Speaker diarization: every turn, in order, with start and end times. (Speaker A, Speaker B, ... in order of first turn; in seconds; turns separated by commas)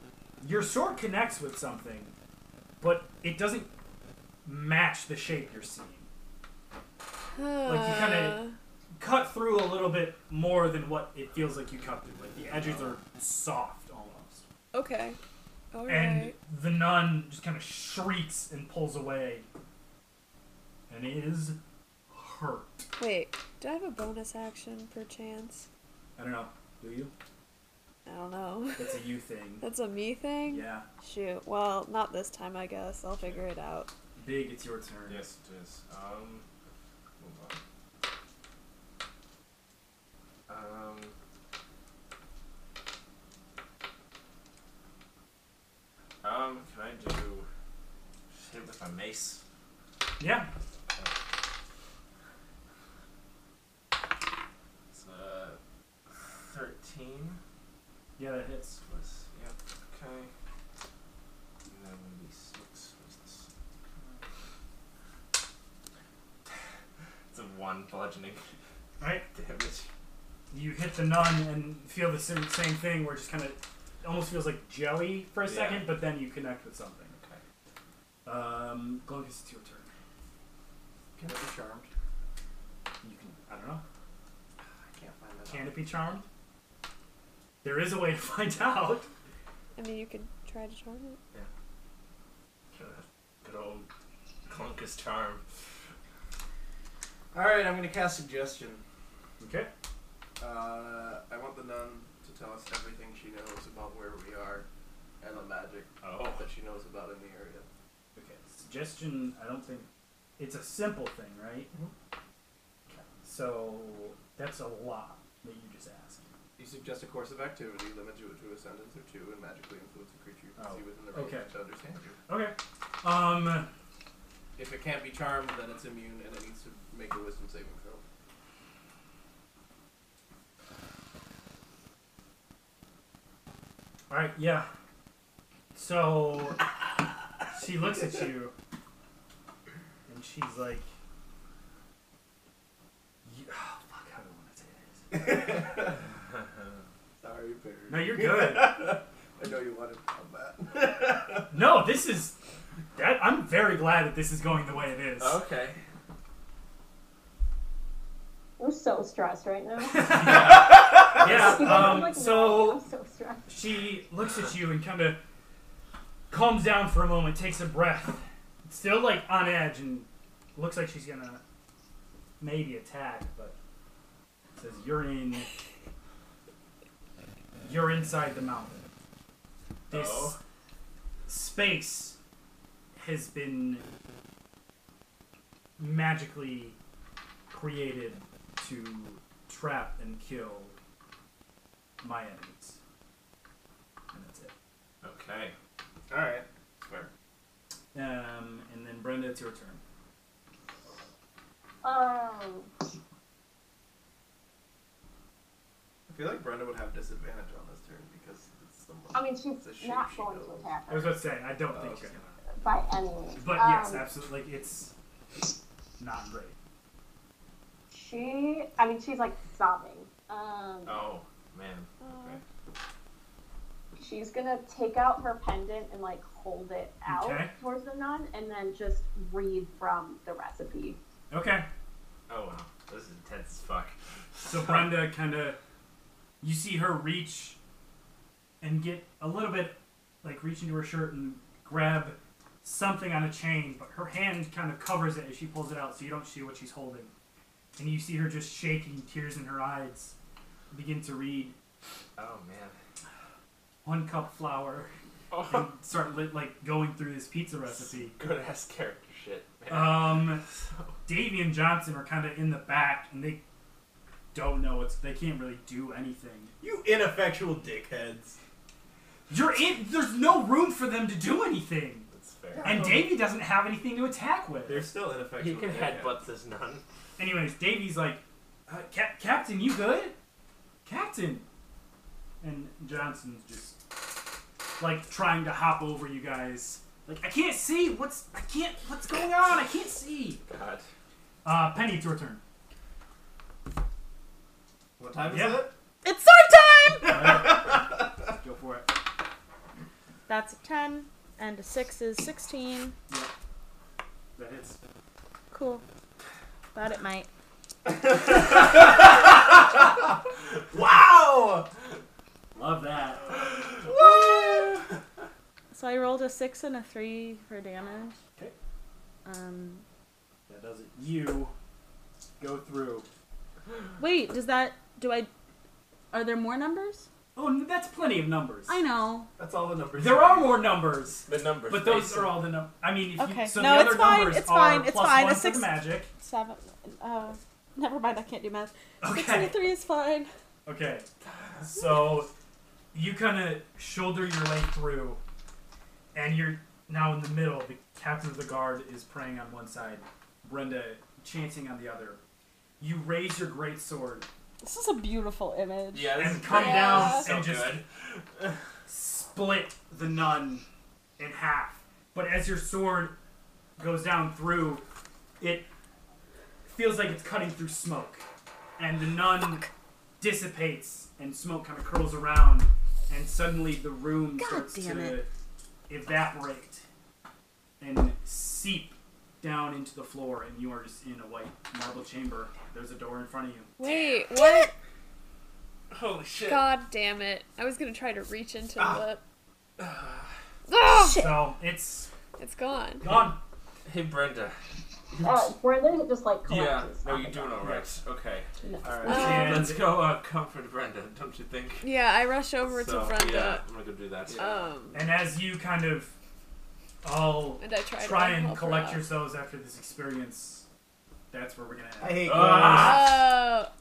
Speaker A: 0.4-2.1, Speaker A: 2.8-3.7, Speaker A: 4.4-6.1, Speaker B: 7.3-8.5, Speaker A: 7.6-8.4, Speaker A: 9.0-14.4, Speaker B: 14.7-15.2, Speaker B: 15.7-16.4, Speaker A: 15.9-19.5, Speaker A: 20.9-21.6, Speaker A: 22.1-22.9, Speaker B: 23.0-25.7, Speaker A: 26.2-27.1, Speaker B: 28.1-29.0, Speaker A: 28.8-29.6, Speaker B: 29.6-33.9, Speaker A: 30.4-30.9, Speaker A: 34.1-35.3, Speaker C: 35.1-36.5, Speaker C: 37.2-37.6, Speaker C: 40.5-41.1, Speaker C: 46.2-47.5, Speaker C: 48.3-49.4, Speaker A: 50.2-50.5, Speaker C: 54.9-57.4, Speaker A: 58.2-58.8, Speaker C: 58.9-60.3, Speaker C: 61.6-63.5, Speaker C: 67.3-68.4, Speaker A: 69.0-69.2, Speaker C: 69.3-69.9, Speaker A: 70.5-77.1, Speaker C: 75.4-75.9, Speaker C: 77.1-77.4, Speaker A: 78.2-79.9, Speaker D: 81.2-81.9, Speaker A: 83.0-83.8, Speaker D: 84.8-85.8, Speaker A: 85.5-86.2, Speaker A: 87.6-89.1, Speaker B: 89.8-91.2, Speaker C: 92.7-93.9, Speaker C: 94.5-95.4, Speaker D: 97.3-98.8, Speaker A: 99.4-99.7, Speaker D: 100.4-104.7, Speaker D: 105.2-107.7, Speaker C: 106.0-106.5, Speaker A: 108.2-109.9, Speaker A: 110.4-111.7, Speaker A: 112.9-116.3, Speaker D: 116.6-122.2, Speaker A: 120.5-121.5, Speaker A: 122.3-123.7, Speaker D: 124.6-128.0, Speaker A: 134.1-134.7, Speaker A: 135.7-136.7, Speaker A: 137.5-138.5, Speaker A: 140.1-140.9, Speaker A: 143.2-145.5, Speaker D: 145.1-146.0, Speaker C: 146.3-146.7, Speaker D: 147.2-151.6, Speaker A: 147.9-148.8, Speaker A: 151.5-152.3, Speaker A: 152.9-155.4, Speaker C: 155.2-155.8, Speaker E: 158.6-160.2, Speaker A: 159.9-162.8, Speaker C: 160.1-161.6, Speaker D: 160.9-162.0, Speaker E: 161.2-163.5, Speaker A: 163.5-165.2, Speaker A: 166.3-171.4, Speaker A: 172.4-173.6, Speaker A: 174.6-175.5, Speaker A: 177.6-178.8, Speaker C: 179.9-180.4, Speaker A: 179.9-180.4, Speaker A: 181.3-182.2, Speaker A: 182.9-183.8, Speaker A: 185.8-186.8, Speaker A: 187.5-190.7, Speaker A: 192.0-192.8, Speaker A: 194.1-194.5, Speaker C: 195.0-195.5, Speaker D: 196.1-197.1, Speaker A: 197.9-199.8, Speaker E: 201.8-202.7, Speaker D: 206.1-210.8, Speaker E: 209.1-211.1, Speaker A: 210.9-212.2, Speaker D: 211.7-212.2, Speaker E: 212.5-214.1, Speaker A: 213.4-214.9, Speaker A: 216.0-216.6, Speaker E: 217.9-221.0, Speaker C: 220.8-222.4, Speaker B: 222.0-222.4, Speaker E: 224.0-231.0, Speaker A: 227.1-227.5, Speaker A: 231.3-231.7, Speaker C: 232.3-235.0, Speaker A: 234.4-235.6, Speaker A: 236.4-237.6, Speaker A: 238.6-247.1, Speaker A: 247.8-250.2, Speaker A: 250.7-251.5, Speaker C: 252.2-252.8, Speaker A: 253.8-258.2, Speaker C: 255.3-255.6, Speaker C: 257.7-260.9, Speaker A: 259.7-260.4, Speaker A: 261.0-263.4, Speaker A: 264.3-266.5, Speaker D: 266.6-268.4, Speaker A: 269.3-272.1, Speaker C: 272.1-272.7, Speaker D: 272.5-273.2, Speaker A: 272.6-274.9, Speaker D: 274.7-276.2, Speaker C: 275.4-276.8, Speaker A: 277.2-280.1, Speaker A: 280.8-281.4, Speaker A: 282.4-283.9, Speaker A: 284.8-290.4, Speaker C: 290.4-290.9, Speaker A: 291.4-292.4, Speaker D: 295.0-295.7, Speaker A: 295.3-295.7, Speaker F: 296.0-297.3, Speaker D: 297.0-298.2, Speaker A: 297.1-297.7, Speaker A: 298.4-299.0, Speaker F: 300.3-302.9, Speaker A: 304.4-304.8, Speaker F: 305.5-305.8, Speaker F: 306.7-307.3, Speaker D: 307.9-309.9, Speaker D: 310.7-311.7, Speaker A: 312.5-313.3, Speaker D: 313.8-314.8, Speaker F: 315.7-318.2, Speaker F: 319.2-319.8, Speaker A: 320.5-321.5, Speaker A: 322.4-323.1, Speaker F: 324.0-325.3, Speaker F: 326.1-327.1, Speaker A: 327.3-328.8, Speaker F: 328.7-329.3, Speaker D: 329.4-330.8, Speaker A: 329.9-336.1, Speaker C: 331.3-332.4, Speaker F: 333.2-340.3, Speaker A: 339.0-339.8, Speaker A: 340.6-341.1, Speaker A: 341.6-342.3, Speaker A: 342.9-345.2, Speaker A: 346.1-352.2, Speaker A: 352.8-354.3, Speaker F: 354.6-356.1, Speaker C: 355.9-358.6, Speaker A: 356.1-357.8, Speaker B: 356.5-357.3, Speaker A: 358.9-360.6, Speaker A: 361.2-363.1, Speaker A: 363.8-364.8, Speaker A: 365.4-365.7, Speaker A: 366.6-368.2, Speaker A: 368.8-369.6, Speaker A: 370.2-375.3, Speaker F: 374.4-375.2, Speaker A: 375.9-376.8, Speaker A: 377.8-383.7, Speaker B: 383.8-384.7, Speaker C: 385.9-386.7, Speaker B: 386.4-389.2, Speaker C: 389.8-390.3, Speaker B: 390.7-391.4, Speaker F: 390.9-391.4, Speaker A: 391.1-392.1, Speaker B: 392.4-393.1, Speaker A: 393.0-393.4, Speaker C: 393.8-394.6, Speaker C: 395.1-395.5, Speaker E: 395.2-397.6, Speaker C: 396.4-401.9, Speaker A: 397.6-397.9, Speaker E: 398.6-399.3, Speaker A: 399.0-399.9, Speaker B: 399.0-399.6, Speaker B: 401.8-403.6, Speaker C: 402.7-404.7, Speaker D: 404.3-404.6, Speaker B: 404.3-405.0, Speaker A: 404.9-406.1, Speaker A: 407.0-410.6, Speaker B: 407.6-409.1, Speaker A: 411.3-412.6, Speaker D: 412.0-413.3, Speaker C: 412.2-413.3, Speaker B: 412.6-413.7